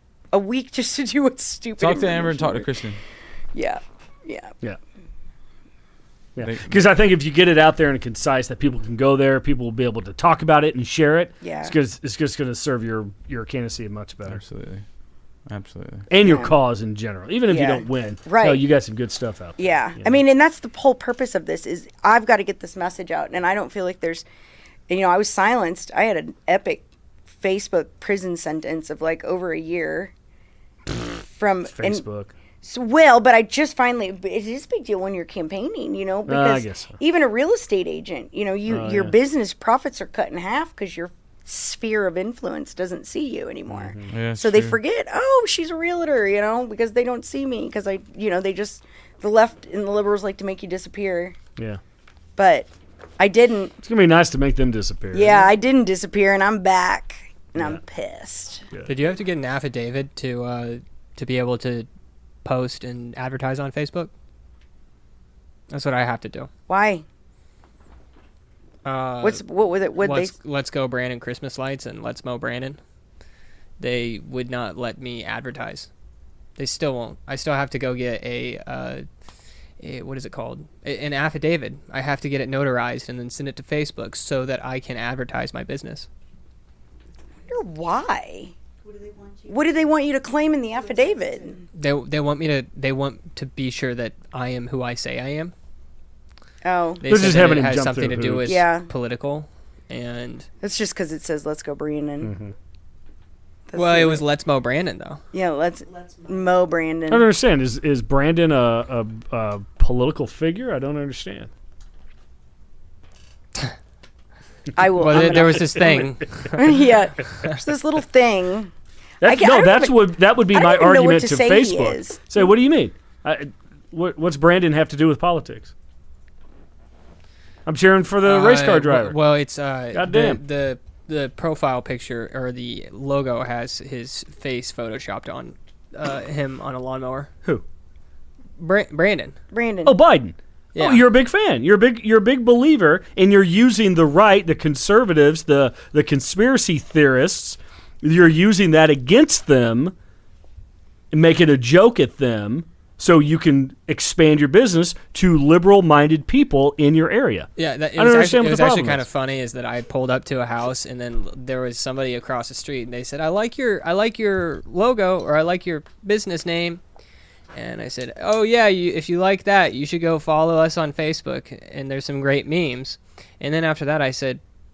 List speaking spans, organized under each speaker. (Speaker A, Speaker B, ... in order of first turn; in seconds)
Speaker A: 0.3-2.7, 3.5-4.5, 11.4-11.7, 16.2-16.5, 17.5-18.6, 19.6-24.2, 24.9-26.8, 27.4-30.1, 30.9-32.0, 32.6-51.4, 52.4-53.7, 55.1-58.6, 66.7-67.0, 69.2-70.3, 87.5-88.5, 89.5-91.6, 96.6-97.0, 98.4-98.9, 100.6-102.3, 103.7-104.2, 105.3-107.3, 114.8-118.7, 119.2-122.4, 139.5-140.0
Speaker B: 1.8-3.0, 6.4-6.9, 14.3-14.8, 15.5-16.1, 44.1-44.8
Speaker C: 6.3-14.4, 16.1-20.1, 31.7-32.3, 36.3-37.0, 38.7-39.1, 43.7-44.1, 53.8-55.5, 97.0-98.6, 102.2-102.5, 107.1-111.5, 115.0-116.5, 119.2-125.7, 127.7-129.2, 129.9-130.4, 139.8-149.9, 151.1-159.0
Speaker D: 58.9-61.9, 62.4-64.1, 65.7-66.5, 68.8-69.4, 70.0-72.8, 73.8-75.9, 76.6-79.0, 79.8-86.1, 91.7-95.5, 97.0-100.5, 103.7-105.2, 115.0-116.8, 128.2-137.3, 138.6-139.3, 140.7-141.0, 157.6-166.8, 167.5-174.4
Speaker E: 88.8-90.0, 90.7-91.7, 105.8-106.6